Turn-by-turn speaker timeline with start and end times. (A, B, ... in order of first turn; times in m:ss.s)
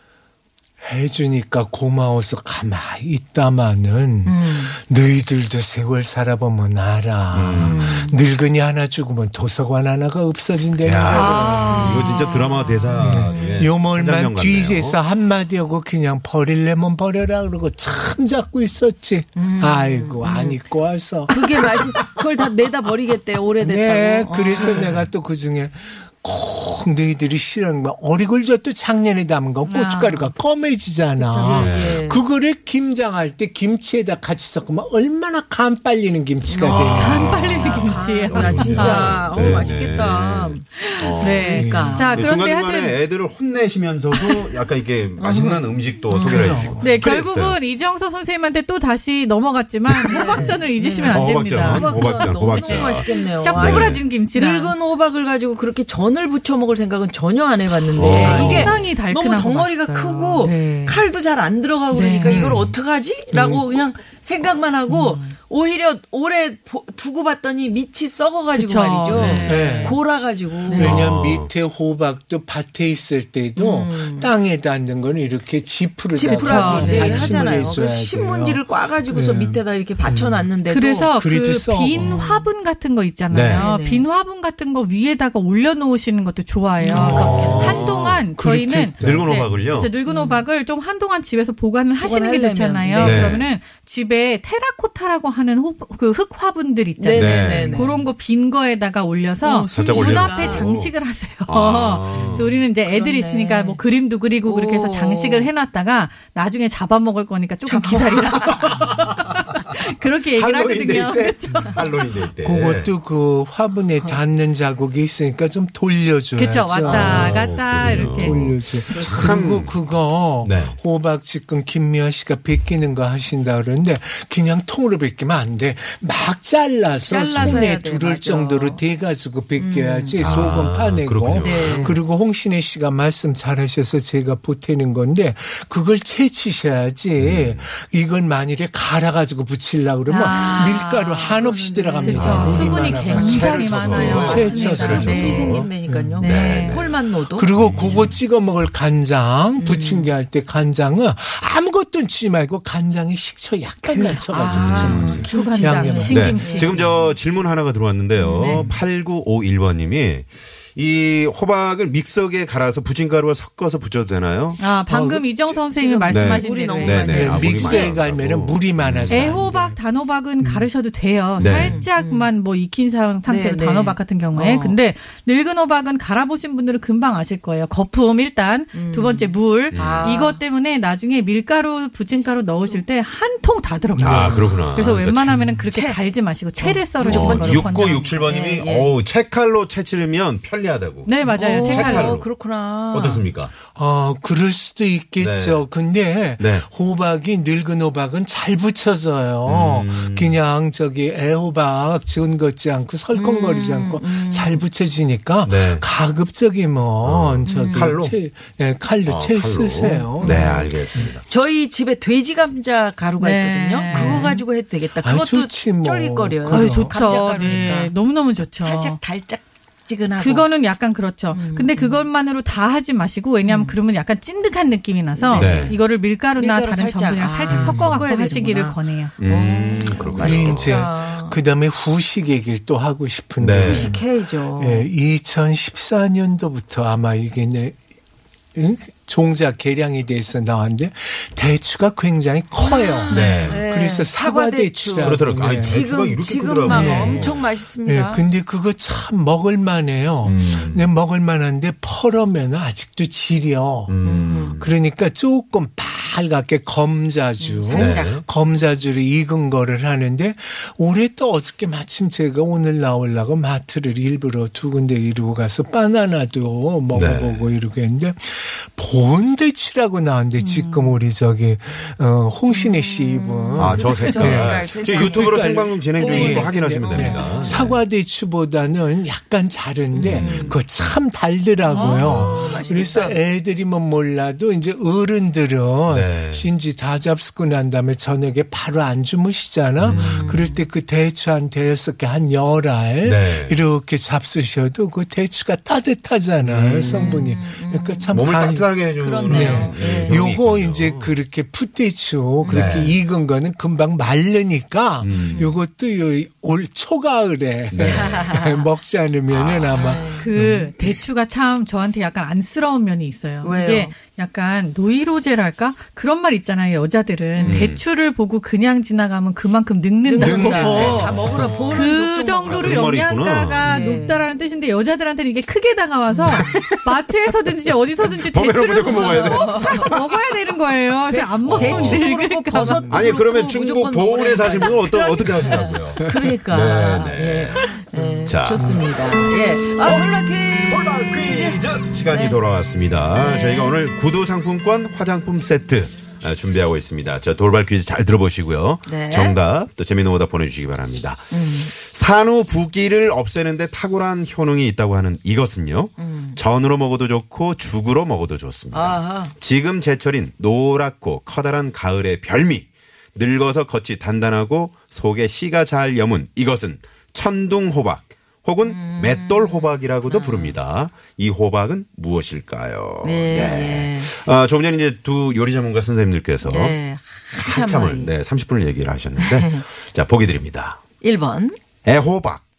0:00.8-0:11.9 A
0:04.2-0:04.7 B
0:07.3-0:07.8 C
0:07.6-0:08.2 B
0:10.8-0:15.0 C
0:11.1-0:12.4 B
0:11.1-0:13.0 D
0:12.9-0:22.2 A
0:13.3-0:13.6 B
0:19.4-0:20.6 B
0:21.3-0:24.9 B
0:23.6-0:37.6 A
0:24.7-0:25.0 C
0:29.6-0:30.3 D
0:31.3-0:32.2 B
0:31.5-0:32.0 C
0:36.5-0:40.6 B
0:36.6-0:47.6 C
0:37.0-0:39.2 D
0:38.4-0:39.7 A
0:40.8-0:43.0 D
0:41.3-0:42.2 B
0:41.5-0:42.1 A
0:45.2-0:46.6 B
0:46.1-0:46.9 A
0:46.8-0:54.7 D
0:50.0-1:11.1 B
0:51.0-0:54.0 C
0:57.9-0:58.8 C
0:58.1-0:58.8 A
0:58.2-1:01.0 D
1:01.9-1:02.4 D
1:02.2-1:02.8 A
1:03.3-1:03.6 A
1:04.9-1:05.3 D
1:08.5-1:10.0 D
1:09.1-1:09.5 C
1:09.4-1:10.0 A
1:10.7-1:11.0 D
1:10.7-1:20.4 A
1:10.8-1:11.5 C
1:13.6-1:14.3 B
1:16.1-1:21.1 B
1:16.3-1:17.5 D
1:20.7-1:52.0 D
1:21.1-1:22.2 A
1:21.9-1:22.5 B
1:23.3-1:23.6 C
1:23.5-1:24.0 B
1:26.8-1:27.8 B
1:26.8-1:29.9 A
1:26.9-1:28.3 C
1:29.0-1:29.9 C
1:30.1-1:30.4 B
1:32.0-1:33.4 B
1:33.0-1:33.4 C
1:37.0-1:38.0 B
1:37.1-1:37.9 C
1:39.4-1:40.7 B
1:39.7-1:40.9 C
1:41.5-1:42.5 C
1:42.1-1:42.5 A
1:42.8-1:43.8 B
1:44.4-1:45.5 B
1:47.6-1:48.9 B
1:48.5-1:49.6 C
1:50.2-1:52.9 C
1:52.4-2:26.6 A
1:56.4-1:58.5 D
1:56.9-1:59.8 C
1:58.9-1:59.4 B
2:00.4-2:00.8 C
2:07.0-2:08.8 B
2:07.4-2:07.6 C
2:09.6-2:10.2 B
2:10.2-2:12.0 C
2:11.4-2:12.0 B
2:17.2-2:17.6 C
2:20.1-2:20.9 D
2:20.1-2:28.1 B
2:22.0-2:25.6 D
2:22.2-2:25.7 C
2:26.2-2:26.8 D
2:26.2-2:26.9 C
2:27.3-2:36.9 A
2:27.5-2:28.2 C
2:29.6-2:30.1 B
2:33.8-2:36.9 D
2:34.3-2:37.0 B
2:34.4-2:35.3 C
2:36.1-2:44.6 C
2:38.2-2:38.7 B
2:38.3-2:38.7 D
2:44.6-2:47.9 D
2:44.9-2:45.6 A
2:45.7-2:47.9 B
2:46.1-2:49.4 C
2:47.1-2:49.8 A
2:49.1-3:08.2 D
2:50.4-2:50.6 A
2:51.4-2:51.8 C
2:51.4-2:52.3 B
2:53.2-2:54.8 B
2:58.7-3:00.4 B
2:59.7-3:00.1 C
3:04.0-3:04.7 A
3:04.0-3:05.4 C
3:05.7-3:06.0 B
3:06.6-3:08.9 B
3:07.0-3:12.3 C
3:11.0-3:12.1 D
3:11.3-3:13.2 B
3:12.9-3:13.5 C
3:13.7-3:30.4 A
3:15.2-3:15.6 C
3:16.4-3:16.6 C
3:19.4-3:20.4 C
3:23.1-3:24.6 B
3:25.4-3:25.8 C
3:27.0-3:28.2 C
3:27.4-3:27.9 B
3:29.0-3:31.2 C
3:30.2-3:30.7 B
3:31.3-3:37.9 B
3:33.2-3:34.4 D
3:33.9-3:34.4 A
3:35.0-3:37.7 A
3:36.5-3:39.0 D
3:38.5-3:40.5 B
3:40.2-3:49.1 D
3:41.3-3:42.1 B
3:43.4-3:43.8 B
3:45.2-3:45.8 B
3:45.3-3:45.8 C
3:46.4-3:51.4 B
3:47.5-3:48.0 A
3:49.2-3:50.8 C
3:50.1-3:57.8 A
3:53.4-3:53.9 C
3:53.5-3:54.9 B
3:58.5-4:05.9 A
4:02.6-4:08.2 B
4:03.1-4:03.6 C
4:03.1-4:03.5 D
4:05.0-4:07.4 C
4:06.6-4:13.9 A
4:10.2-4:10.6 B
4:10.2-4:10.9 C
4:13.9-4:14.7 C
4:14.0-4:14.6 B
4:14.6-4:58.7 A
4:17.4-4:18.2 B
4:17.7-4:18.2 C
4:26.9-4:27.4 C
4:30.4-4:31.0 D
4:32.5-4:37.6 B
4:33.6-4:37.8 C
4:39.9-4:40.6 B
4:40.0-4:40.5 C
4:41.7-4:43.2 B
4:41.8-4:42.9 C
4:45.9-4:46.5 C
4:49.8-4:50.4 C
4:49.8-4:50.6 B
4:53.0-4:53.6 C
4:56.4-4:57.3 C
4:56.9-4:58.1 B
4:58.1-5:01.1 C
4:59.0-5:00.2 B
4:59.2-5:11.0 A
5:02.4-5:02.7 B
5:02.5-5:02.9 C
5:05.0-5:05.4 C
5:05.2-5:05.5 B
5:07.7-5:08.3 C
5:07.8-5:08.6 B
5:09.3-5:10.0 C
5:09.7-5:10.3 B
5:10.2-5:32.9 D
5:13.4-5:13.9 B
5:17.4-5:17.7 B
5:17.4-5:17.8 C
5:20.0-5:22.9 B
5:20.2-5:21.4 A
5:20.2-5:23.8 C
5:23.6-5:24.2 B
5:26.1-5:26.6 B
5:26.2-5:26.9 C
5:28.0-5:30.3 C
5:28.9-5:29.9 B
5:31.1-5:42.4 B
5:31.4-5:32.0 C
5:32.9-5:38.8 C
5:38.0-5:38.9 A
5:39.8-5:40.1 C
5:40.6-6:16.8 C
5:43.2-5:43.8 B
5:48.8-5:49.4 B
5:51.3-5:51.7 B
5:56.0-5:56.4 B
5:58.7-5:59.3 B
6:08.6-6:10.6 B
6:13.0-6:14.1 B
6:16.4-6:18.1 B
6:17.3-6:20.8 C
6:19.2-6:19.6 B
6:21.0-6:21.6 B
6:21.8-6:22.4 C